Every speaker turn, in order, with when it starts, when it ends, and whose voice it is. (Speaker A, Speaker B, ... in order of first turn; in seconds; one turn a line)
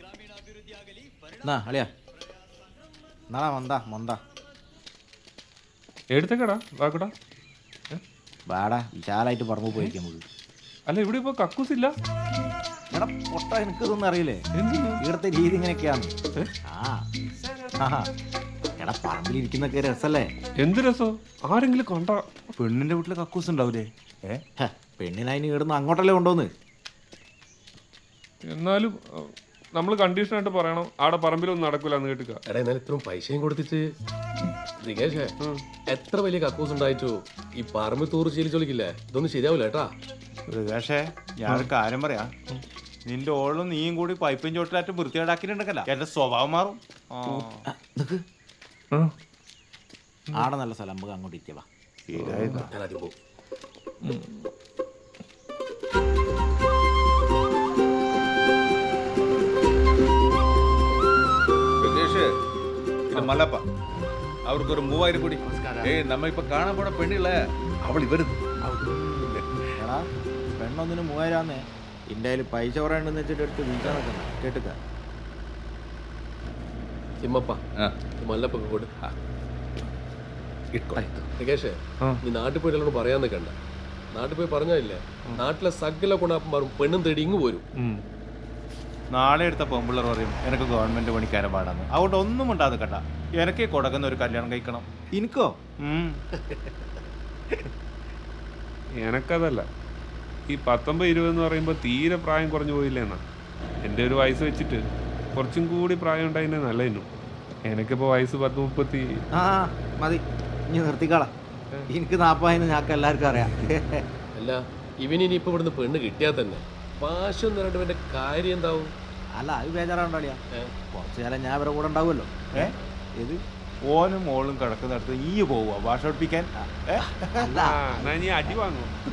Speaker A: 1.4-1.9
Speaker A: 3.3-4.2
Speaker B: 6.1-7.1
Speaker A: 8.5-10.2
Speaker B: 10.9-11.9
Speaker A: 12.9-14.4
Speaker B: 14.6-15.0
Speaker A: 15.0-16.1
Speaker A: 16.6-17.0
Speaker B: 17.4-17.7
Speaker A: 17.8-18.1
Speaker A: 18.8-20.3
Speaker B: 20.6-22.2
Speaker C: 22.6-24.4
Speaker A: 24.6-26.5
Speaker B: 28.4-32.4
Speaker D: 32.5-33.8
Speaker D: 34.8-35.3
Speaker D: 35.9-39.9
Speaker C: 40.5-42.3
Speaker C: 43.0-47.6
Speaker A: 47.7-48.2
Speaker A: 50.3-51.6
Speaker C: 52.1-52.7
Speaker B: 52.1-52.7
Speaker D: 52.5-53.1
Speaker B: 54.0-54.5
Speaker E: 61.8-62.3
Speaker E: 63.1-63.6
Speaker E: 64.5-69.8
Speaker A: 65.5-65.9
Speaker A: 69.8-70.0
Speaker A: 70.6-74.8
Speaker D: 77.2-77.6
Speaker D: 78.2-78.9
Speaker E: 80.7-81.1
Speaker B: 81.0-81.3
Speaker D: 81.4-83.5
Speaker D: 84.1-87.6
Speaker C: 89.1-94.9
Speaker A: 95.2-95.5
Speaker C: 95.8-96.2
Speaker D: 96.5-96.9
Speaker B: 98.9-99.7
Speaker B: 100.5-103.2
Speaker B: 103.8-104.8
Speaker B: 105.3-107.1
Speaker B: 107.7-109.2
Speaker A: 109.3-111.3
Speaker A: 111.9-114.0
Speaker D: 114.4-118.9
Speaker A: 119.4-120.4
Speaker A: 120.9-123.4
Speaker C: 123.9-127.5
Speaker A: 126.6-128.6
Speaker B: 127.6-128.9